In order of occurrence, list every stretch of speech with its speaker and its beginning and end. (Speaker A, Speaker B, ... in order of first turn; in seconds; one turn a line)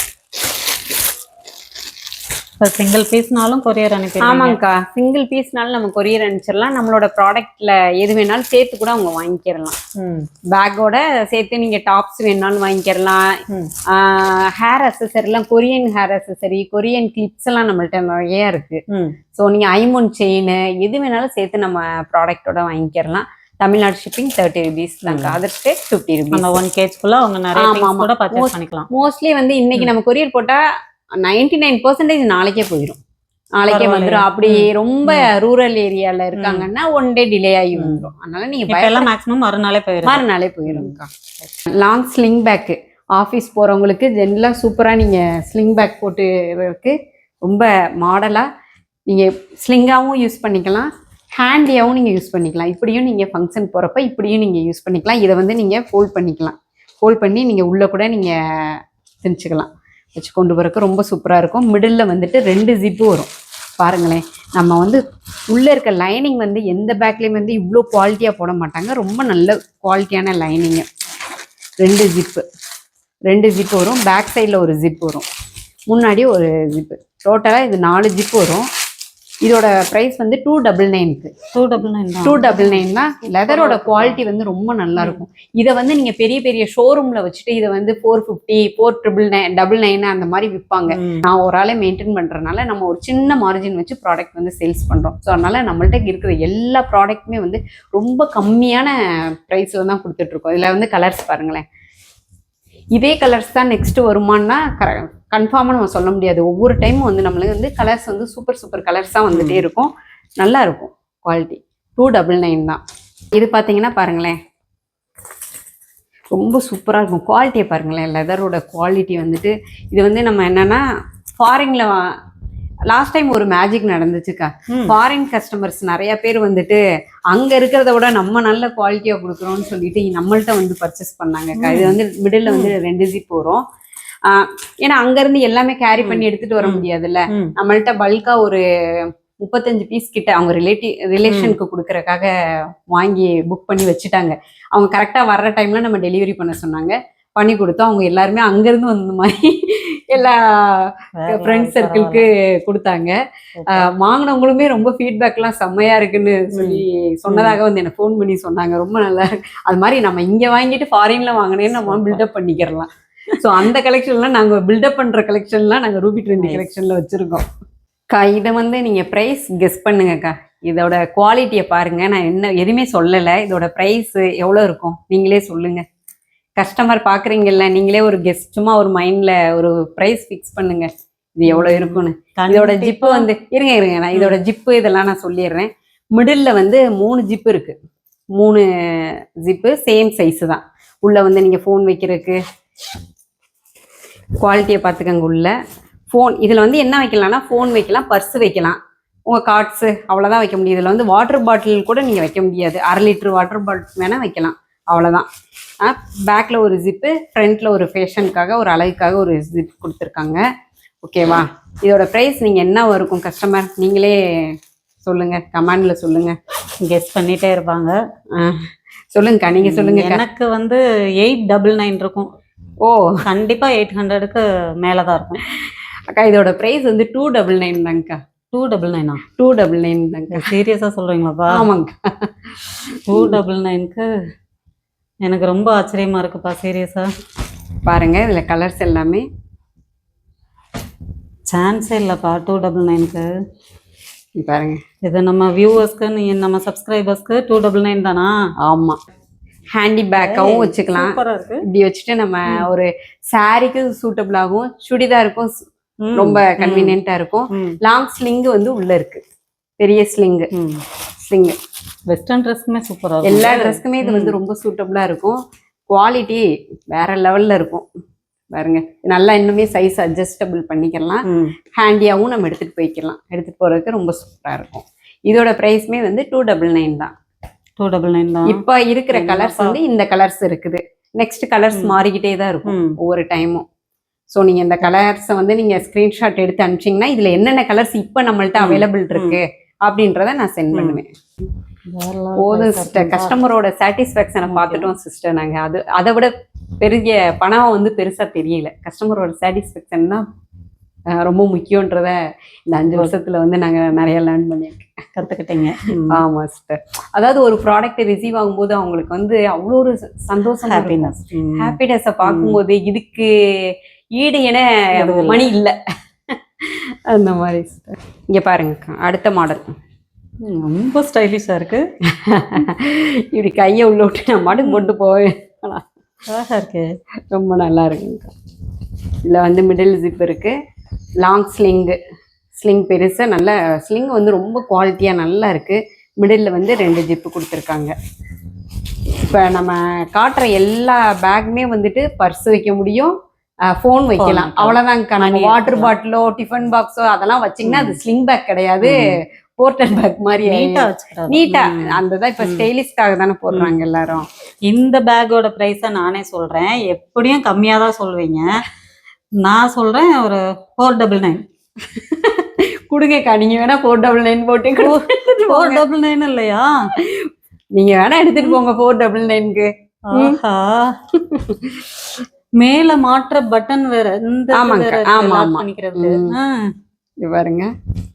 Speaker A: 2.6-4.6
Speaker B: 4.2-9.8
Speaker A: 10.0-10.3
Speaker B: 10.5-18.8
Speaker A: 18.9-19.2
Speaker B: 19.4-26.6
Speaker A: 25.1-25.4
Speaker A: 26.3-28.9
Speaker B: 27.6-30.6
Speaker B: 31.2-33.0
Speaker B: 33.6-39.1
Speaker A: 33.7-35.3
Speaker A: 36.4-36.7
Speaker A: 37.8-38.1
Speaker A: 38.7-41.0
Speaker B: 40.0-41.1
Speaker B: 41.6-48.5
Speaker B: 49.1-70.9
Speaker B: 71.8-72.5
Speaker B: 73.3-75.3
Speaker B: 75.9-78.7
Speaker B: 79.4-81.3
Speaker A: 81.5-82.8
Speaker B: 82.2-101.7
Speaker A: 83.5-84.2
Speaker A: 90.9-91.2
Speaker B: 102.9-112.8
Speaker A: 109.3-109.7
Speaker B: 113.3-114.4
Speaker B: 116.3-120.8
Speaker B: 121.4-122.2
Speaker B: 122.9-133.6
Speaker A: 124.7-125.0
Speaker A: 131.6-132.8
Speaker B: 134.2-142.3
Speaker A: 136.0-137.5
Speaker A: 141.3-141.6
Speaker B: 142.9-167.4
Speaker A: 151.2-152.2
Speaker A: 153.6-153.9
Speaker A: 156.5-157.6
Speaker A: 161.7-162.2
Speaker B: 168.1-175.8
Speaker B: 176.6-187.8
Speaker A: 181.5-183.3
Speaker B: 188.3-192.4
Speaker B: 194.4-195.6
Speaker B: 196.1-205.3
Speaker B: 205.8-210.5
Speaker B: 211.0-216.4
Speaker A: 216.8-218.0
Speaker B: 218.3-220.2
Speaker A: 219.6-222.3
Speaker B: 222.8-223.2
Speaker A: 223.2-225.4
Speaker B: 226.1-228.2
Speaker A: 228.5-229.2
Speaker B: 229.3-230.5
Speaker A: 230.3-231.7
Speaker B: 231.5-232.3
Speaker A: 233.1-234.1
Speaker B: 233.1-233.4
Speaker A: 235.2-237.1
Speaker B: 237.9-239.3
Speaker A: 241.5-243.3
Speaker B: 244.4-244.8
Speaker A: 245.0-248.3
Speaker B: 248.6-249.0
Speaker B: 249.7-259.2
Speaker A: 250.2-251.6
Speaker A: 256.0-257.0
Speaker A: 257.5-257.8
Speaker B: 259.8-260.5
Speaker A: 260.5-260.8
Speaker B: 261.2-261.6
Speaker A: 262.1-264.4
Speaker B: 263.2-265.4
Speaker B: 265.9-267.9
Speaker B: 268.5-277.1
Speaker A: 271.2-271.6
Speaker A: 277.8-278.6
Speaker B: 278.4-283.6
Speaker A: 279.1-279.8
Speaker A: 282.6-283.0
Speaker B: 284.3-291.1
Speaker A: 288.6-289.4
Speaker A: 290.7-291.0
Speaker A: 291.9-293.4
Speaker B: 292.4-300.2
Speaker A: 294.5-294.9
Speaker B: 301.1-305.0
Speaker A: 305.2-306.2
Speaker B: 306.1-315.8
Speaker A: 310.7-312.6
Speaker A: 315.0-315.5
Speaker B: 316.3-319.8
Speaker A: 320.4-321.9
Speaker B: 322.1-325.9
Speaker A: 324.6-324.9
Speaker A: 326.3-326.9
Speaker B: 327.3-328.3
Speaker B: 329.2-330.6
Speaker B: 331.2-332.0
Speaker B: 332.6-337.9
Speaker B: 339.2-354.3
Speaker A: 344.2-345.9
Speaker A: 347.6-348.0
Speaker A: 348.8-349.2
Speaker A: 350.4-352.7
Speaker A: 354.6-358.6
Speaker A: 359.4-361.4
Speaker B: 362.0-365.8
Speaker A: 364.8-366.9
Speaker B: 367.0-370.4
Speaker A: 370.1-371.0
Speaker B: 371.1-371.8
Speaker A: 372.6-376.5
Speaker B: 374.5-376.4
Speaker B: 377.2-377.7